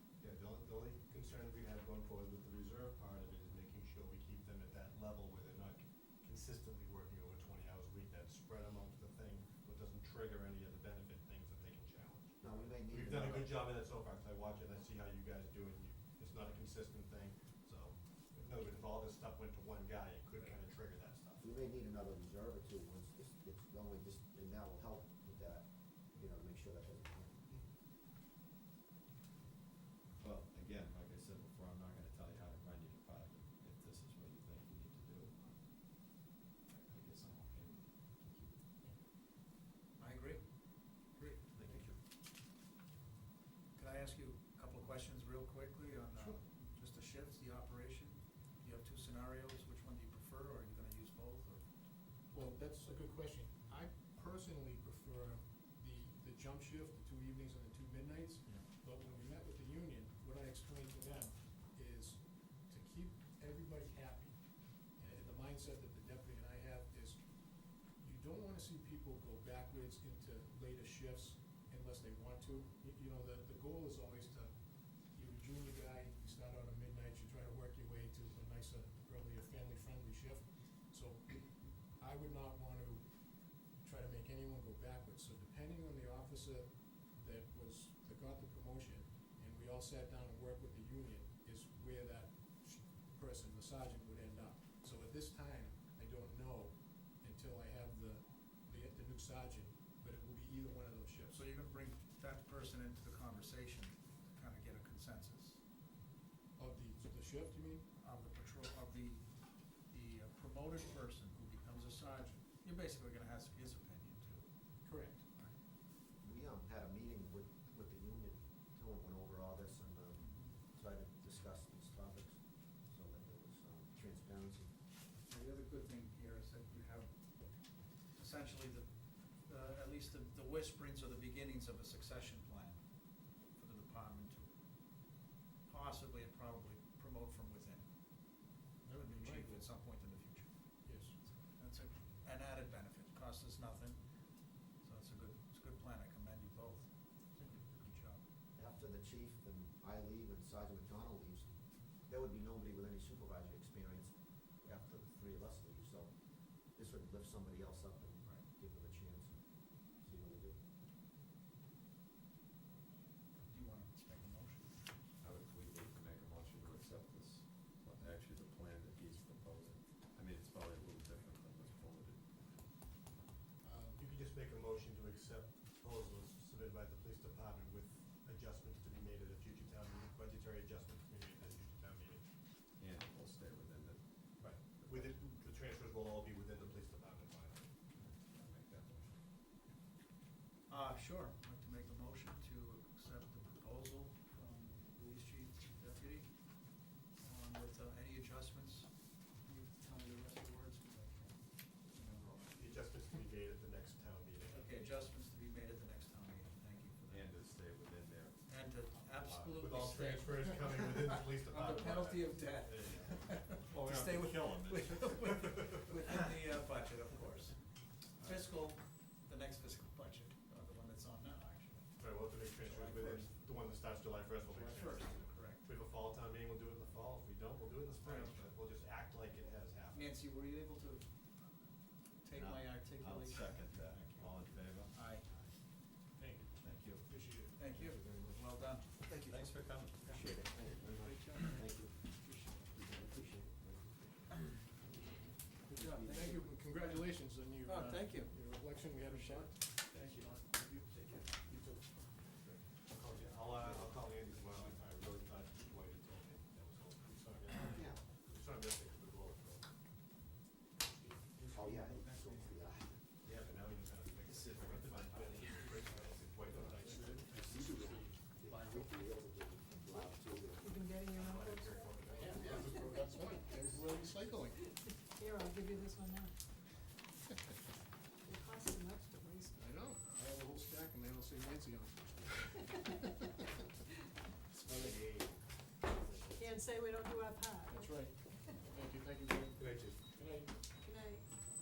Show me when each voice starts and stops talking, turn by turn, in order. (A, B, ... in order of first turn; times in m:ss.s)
0:00.2-0:21.5 A
0:12.4-0:13.6 B
0:21.4-0:27.6 B
0:30.2-0:38.6 C
0:40.0-0:40.9 D
0:41.2-0:41.8 E
0:41.5-0:42.0 B
0:43.8-0:53.0 D
0:46.1-0:46.4 E
0:52.3-1:41.5 E
0:58.4-0:58.7 D
1:41.3-1:45.6 D
1:46.6-1:47.9 E
1:48.0-1:55.6 D
1:54.8-1:55.3 E
1:56.2-2:04.7 B
2:00.2-2:00.6 D
2:05.3-2:28.2 D
2:18.8-2:19.7 E
2:20.8-2:21.2 E
2:28.6-2:40.6 B
2:43.4-2:44.9 D
2:45.2-2:52.7 C
2:53.6-2:54.0 E
2:54.0-3:02.4 A
3:02.8-3:05.1 C
3:04.4-3:08.0 A
3:08.0-3:09.1 C
3:10.7-3:23.0 D
3:22.5-3:24.8 A
3:24.5-3:27.7 D
3:27.1-3:29.6 C
3:28.5-3:43.5 D
3:29.6-3:33.7 A
3:33.7-3:35.6 C
3:42.0-3:50.2 A
3:44.5-3:45.7 D
3:48.0-3:48.5 D
3:49.9-3:54.3 D
3:52.4-3:55.1 C
3:54.9-3:55.3 D
3:56.2-3:57.6 E
3:56.6-3:57.1 C
3:57.6-4:02.8 D
3:57.7-4:04.8 B
3:59.1-4:00.0 C
4:05.5-4:06.4 B
4:05.8-4:11.8 D
4:06.0-4:09.7 E
4:12.4-4:12.6 D
4:12.8-4:20.0 A
4:17.7-4:18.0 B
4:20.8-4:21.3 A
4:21.4-4:22.7 D
4:21.5-4:23.0 B
4:23.2-4:28.0 A
4:24.3-4:27.2 D
4:26.5-4:30.9 B
4:28.4-4:29.4 D
4:30.6-4:32.1 F
4:31.1-4:33.1 A
4:32.3-4:34.7 E
4:34.7-4:36.4 F
4:38.2-4:39.6 F
4:39.6-4:43.2 E
4:44.5-4:45.0 E
4:44.9-4:45.3 A
4:46.4-4:48.6 F
4:47.7-4:50.6 E
4:49.6-4:50.1 A
4:50.8-4:51.3 F